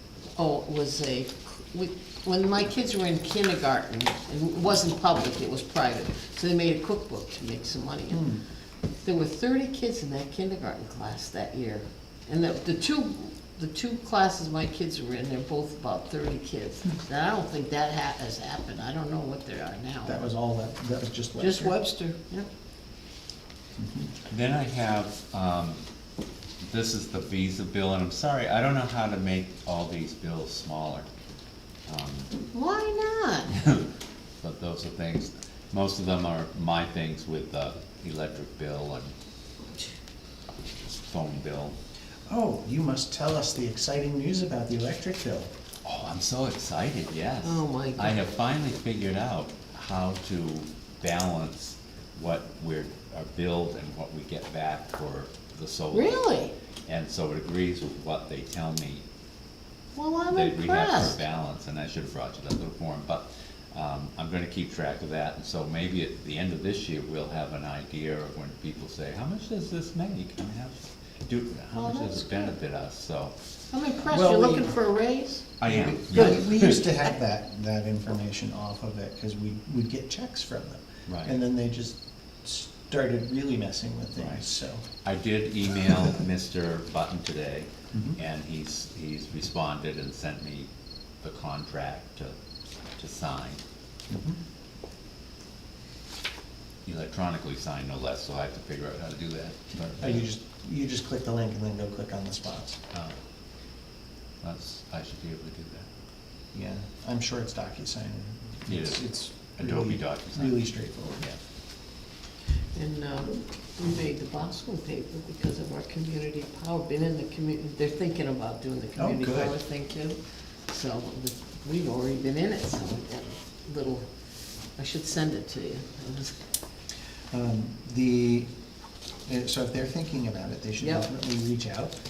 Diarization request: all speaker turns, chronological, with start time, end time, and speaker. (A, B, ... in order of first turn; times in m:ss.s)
0:00.3-0:08.3 A
0:08.1-0:08.4 B
0:09.0-0:20.2 A
0:20.0-0:21.8 B
0:21.4-0:22.5 A
0:23.8-0:24.2 B
0:24.3-0:25.8 C
0:26.6-0:31.1 C
0:31.8-0:32.3 C
0:32.5-0:33.5 A
0:34.4-0:39.1 C
0:40.8-0:41.8 C
0:42.3-0:45.5 B
0:45.8-0:56.2 C
0:47.4-0:48.2 A
0:55.9-0:56.5 A
0:56.8-0:59.0 C
0:59.9-1:01.2 A
1:00.3-1:13.3 C
1:11.7-1:12.5 A
1:13.7-1:16.4 A
1:14.1-1:14.8 B
1:15.6-1:16.9 C
1:15.7-1:24.8 B
1:21.1-1:21.4 C
1:24.2-1:24.4 C
1:25.0-1:30.7 C
1:27.9-1:28.2 B
1:31.2-1:32.3 C
1:33.0-1:33.6 C
1:34.1-1:34.4 B
1:36.8-1:40.2 C
1:40.0-1:42.8 B
1:44.4-1:45.9 C
1:46.5-1:51.3 B
1:48.7-1:50.6 C
1:52.7-2:04.0 A
1:59.0-1:59.5 B
2:04.8-2:06.4 A
2:07.3-2:08.5 B
2:09.2-2:12.0 B
2:10.8-2:11.1 A